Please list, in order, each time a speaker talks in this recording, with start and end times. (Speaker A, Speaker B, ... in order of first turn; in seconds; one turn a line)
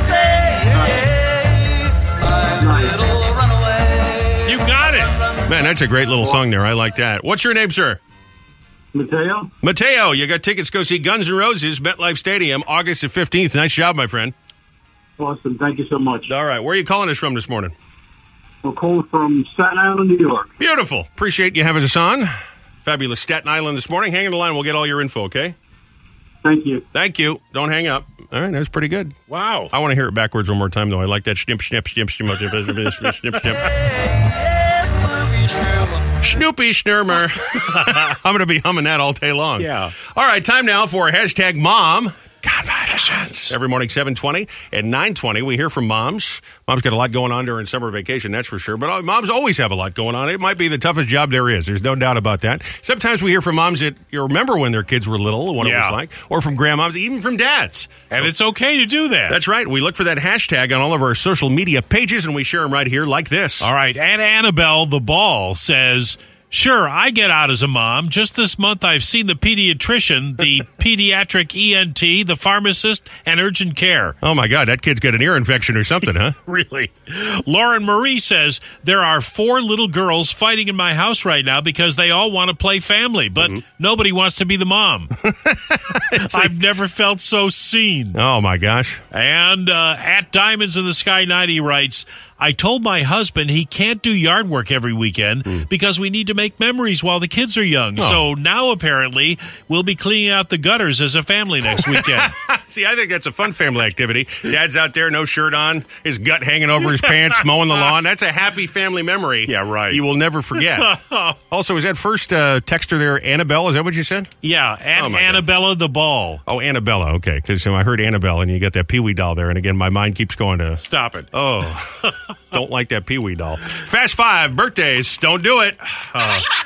Speaker A: 0.7-1.1
Speaker A: 2.5-3.1
Speaker B: 4.5-5.1
Speaker C: 5.5-8.0
Speaker A: 8.9-9.5
Speaker C: 9.6-14.3
Speaker A: 15.2-16.3
Speaker C: 16.3-17.7
Speaker A: 18.6-20.5
Speaker C: 20.6-22.3
Speaker C: 22.8-25.6
Speaker A: 26.4-26.9
Speaker C: 26.9-29.2
Speaker B: 29.3-29.7
Speaker C: 29.7-33.6
Speaker C: 36.2-58.3
Speaker B: 39.6-40.0
Speaker B: 42.8-43.5
Speaker B: 55.6-56.0
Speaker B: 58.1-59.4
Speaker C: 59.3-63.7
Speaker B: 63.6-74.2
Speaker C: 74.2-76.4
Speaker B: 76.5-85.1
Speaker C: 85.3-86.5
Speaker B: 86.2-88.2
Speaker C: 88.2-89.0
Speaker B: 89.1-102.3
Speaker C: 98.0-98.2
Speaker C: 101.7-110.9
Speaker B: 109.5-111.4
Speaker C: 111.5-114.3
Speaker B: 114.4-116.4
Speaker C: 115.0-115.5
Speaker C: 116.5-120.8
Speaker B: 120.8-121.3
Speaker C: 121.3-126.4